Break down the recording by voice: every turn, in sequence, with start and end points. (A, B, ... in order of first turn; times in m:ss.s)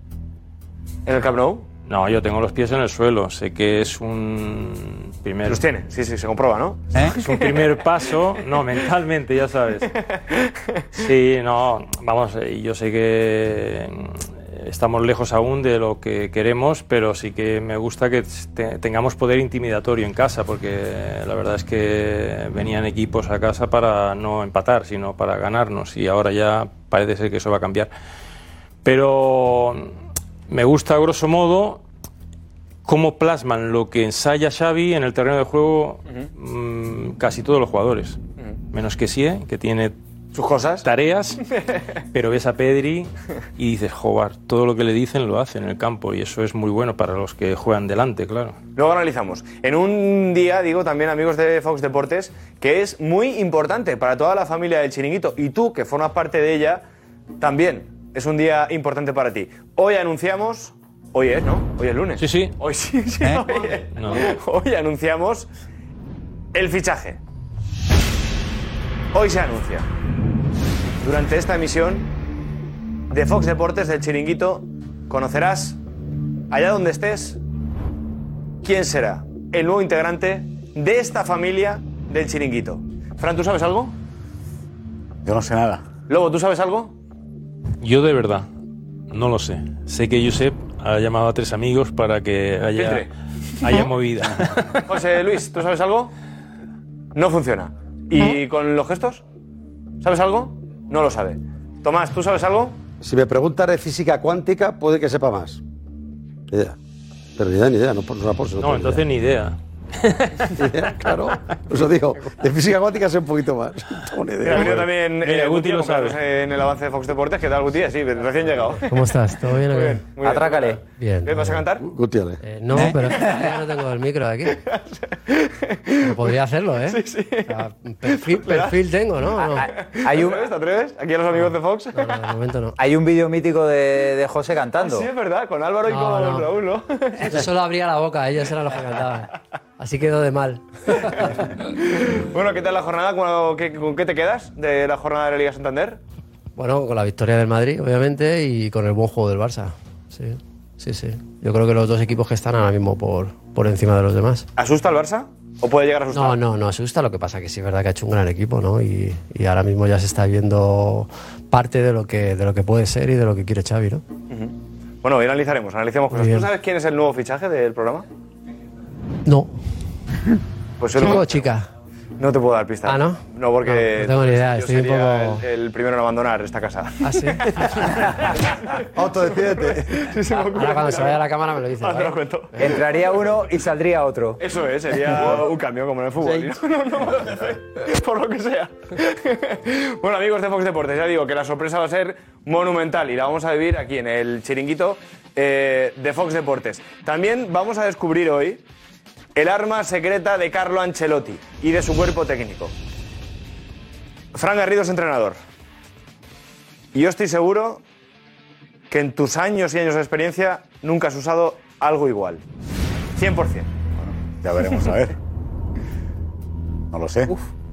0:01.0-0:01.6 A
0:01.9-0:05.6 B
0:05.4-0:07.7 A
0:07.0-0:09.9 B
0:10.9-0:27.9 B
0:28.8-0:29.9 B
0:30.5-0:31.8 B
0:32.8-0:38.2 B
0:38.7-0:39.9 B
0:40.3-0:40.9 A
0:40.8-0:41.4 B
0:42.1-0:48.6 B
0:48.8-0:56.8 A
0:57.4-1:05.5 A
1:02.2-1:02.5 B
1:04.0-1:04.2 B
1:06.5-1:07.2 A
1:09.1-1:09.9 A
1:11.0-1:12.1 A
1:13.1-1:15.8 A
1:16.5-1:17.4 A
1:18.6-1:23.9 A
1:25.2-1:25.8 C
1:26.1-1:26.9 A
1:27.8-1:28.5 B
1:29.1-1:33.1 B
1:32.7-1:33.1 A
1:33.6-1:34.7 B
1:34.8-1:36.1 A
1:37.1-1:39.2 A
1:40.0-1:42.8 A
1:43.0-1:45.6 D
1:46.5-1:46.8 D
1:47.4-1:49.0 D
1:48.6-1:49.6 B
1:50.5-1:54.9 D
1:54.4-2:01.8 A
1:54.5-1:56.2 B
1:58.9-2:00.1 E
2:00.2-2:00.8 F
2:00.9-2:01.6 E
2:01.8-2:02.4 D
2:02.4-2:04.6 E
2:02.7-2:03.1 F
2:02.8-2:03.6 A
2:04.5-2:06.2 A
2:06.0-2:09.6 E
2:06.8-2:08.8 A
2:09.3-2:12.3 A
2:10.0-2:10.4 F
2:11.9-2:12.7 E
2:12.8-2:15.1 F
2:14.7-2:17.5 A
2:15.9-2:16.5 E
2:17.2-2:21.1 E
2:21.8-2:26.0 A
2:26.6-2:34.5 E
2:34.6-2:36.4 A
2:36.1-2:44.0 E
2:44.3-2:48.0 A
2:46.1-2:46.5 E
2:49.2-2:49.5 E
2:50.8-2:51.5 A
2:50.9-2:51.7 E
2:52.2-2:58.8 A
2:52.8-2:55.4 E
2:57.0-2:57.6 E
2:58.9-2:59.8 D
2:59.3-3:01.2 A
3:00.4-3:02.7 E
3:01.8-3:02.8 A
3:02.6-3:04.4 F
3:04.4-3:18.6 A
3:19.4-3:22.7 A
3:24.3-3:25.4 A
3:26.9-3:27.8 A
3:28.9-3:32.4 A
3:33.1-3:33.7 A
3:34.0-3:35.1 C
3:36.9-3:37.3 C